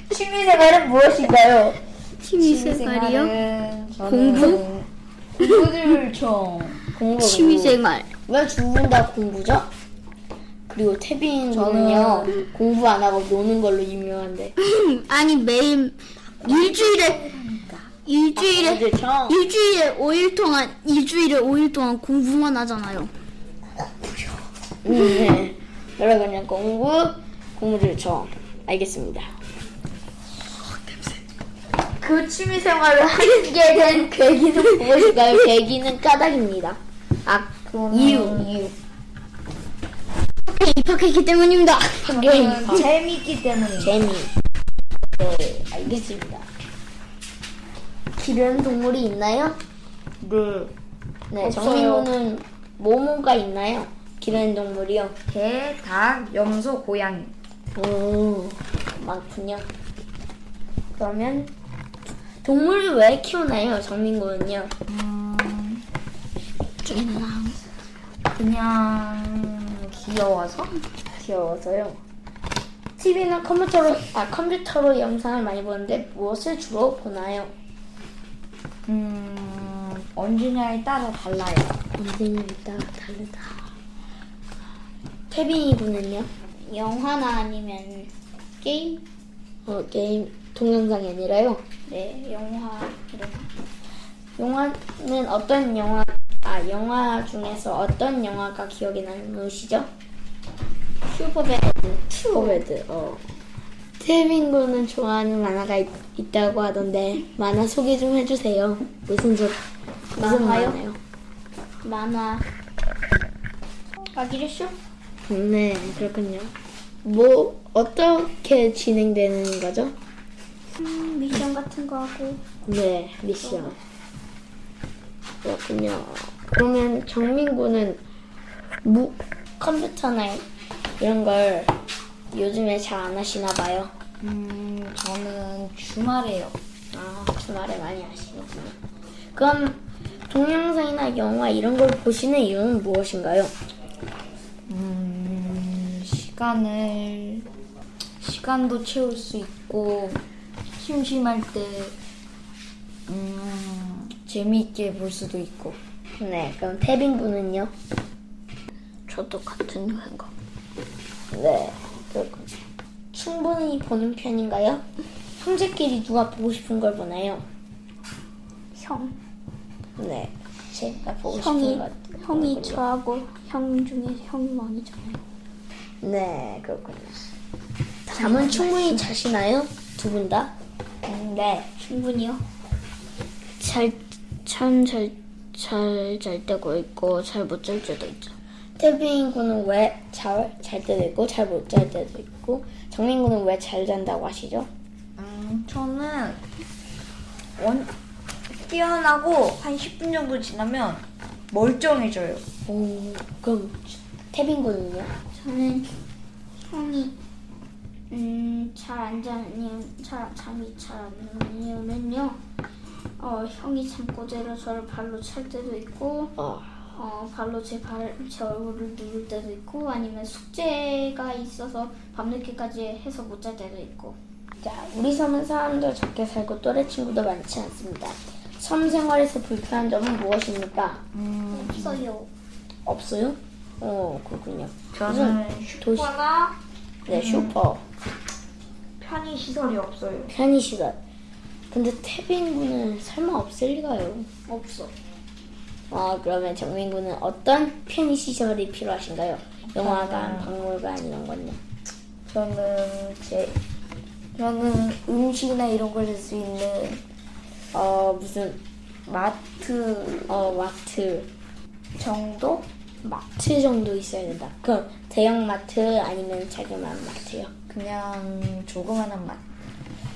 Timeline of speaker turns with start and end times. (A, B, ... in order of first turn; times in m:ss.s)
0:00.1-0:00.7 A
0:00.3-0:01.8 B
0:02.2-0:03.3 C
0:02.4-0:06.8 A
0:04.0-0:04.6 C
0:07.0-0:09.7 B
0:07.2-0:08.1 C
0:10.7-0:14.6 B
0:11.5-0:12.4 A
0:14.6-0:17.2 C
0:16.2-0:17.9 A
0:18.0-0:23.1 C
0:18.4-0:19.4 B
0:24.8-0:29.3 B
0:32.0-0:38.7 B
0:37.7-0:38.7 A
0:40.5-0:42.8 C
0:42.0-0:42.9 B
0:42.1-0:44.0 A
0:43.8-0:44.3 B
0:45.2-0:46.5 B
0:48.2-0:49.6 B
0:50.2-0:50.7 A
0:51.3-0:55.2 B
0:51.4-0:52.1 C
0:55.3-0:57.3 A
0:57.8-0:59.7 B
1:01.0-1:01.5 B
1:02.4-1:04.7 B
1:04.9-1:05.8 A
1:06.8-1:07.6 C
1:08.4-1:10.7 A
1:11.1-1:12.0 B
1:13.0-1:17.5 B
1:18.9-1:21.8 A
1:22.0-1:23.7 B
1:25.3-1:26.3 B
1:26.6-1:29.0 C
1:29.7-1:31.6 B
1:31.9-1:33.5 C
1:34.4-1:39.9 B
1:41.1-1:42.6 C
1:42.1-1:43.2 B
1:44.0-1:49.6 B
1:50.2-1:50.8 C
1:50.2-1:51.0 B
1:51.8-1:52.5 C
1:54.1-1:54.8 C
1:55.3-1:56.5 B
1:57.0-2:00.0 B
2:00.8-2:02.4 C
2:02.7-2:03.8 B
2:03.4-2:03.8 C
2:05.4-2:08.0 B
2:08.8-2:10.4 B
2:11.0-2:11.7 B
2:12.3-2:13.9 B
2:14.2-2:16.6 A
2:16.9-2:18.8 B
2:19.3-2:23.5 B
2:24.7-2:27.5 A
2:28.2-2:30.2 A
2:30.8-2:32.0 A
2:33.1-2:35.8 A
2:36.2-2:37.7 B
2:39.1-2:40.3 C
2:41.3-2:42.5 B
2:43.1-2:44.8 B
2:45.4-2:47.4 B
2:48.7-2:49.2 C
2:50.0-2:52.8 B
2:51.3-2:55.2 C
2:56.0-2:57.3 B
2:58.1-3:00.5 B
2:58.1-2:59.1 C
3:01.1-3:01.7 A
3:01.8-3:02.4 C
3:03.6-3:08.3 C
3:08.8-3:14.7 B
3:15.2-3:16.4 A
3:17.6-3:17.9 A
3:18.5-3:22.4 A
3:22.7-3:25.1 B
3:25.3-3:25.9 C
3:26.7-3:27.2 C
3:28.1-3:32.4 C
3:33.2-3:36.3 C
3:36.4-3:36.8 B
3:36.9-3:44.2 C
3:44.6-3:51.0 B
3:51.1-3:52.0 A
3:51.5-3:52.3 C
3:52.9-3:56.1 B
3:54.9-3:56.6 A
3:57.1-3:57.6 A
3:57.1-3:57.8 B
3:59.0-4:00.4 A
4:00.3-4:01.0 B
4:01.7-4:04.3 B
4:04.5-4:04.9 C
4:05.9-4:11.6 B
4:09.7-4:10.5 A
4:12.3-4:13.6 A
4:14.4-4:17.0 A
4:17.7-4:18.6 B
4:19.1-4:20.4 A
4:20.3-4:21.3 B
4:22.0-4:22.7 A
4:23.0-4:27.5 B
4:27.7-4:29.4 A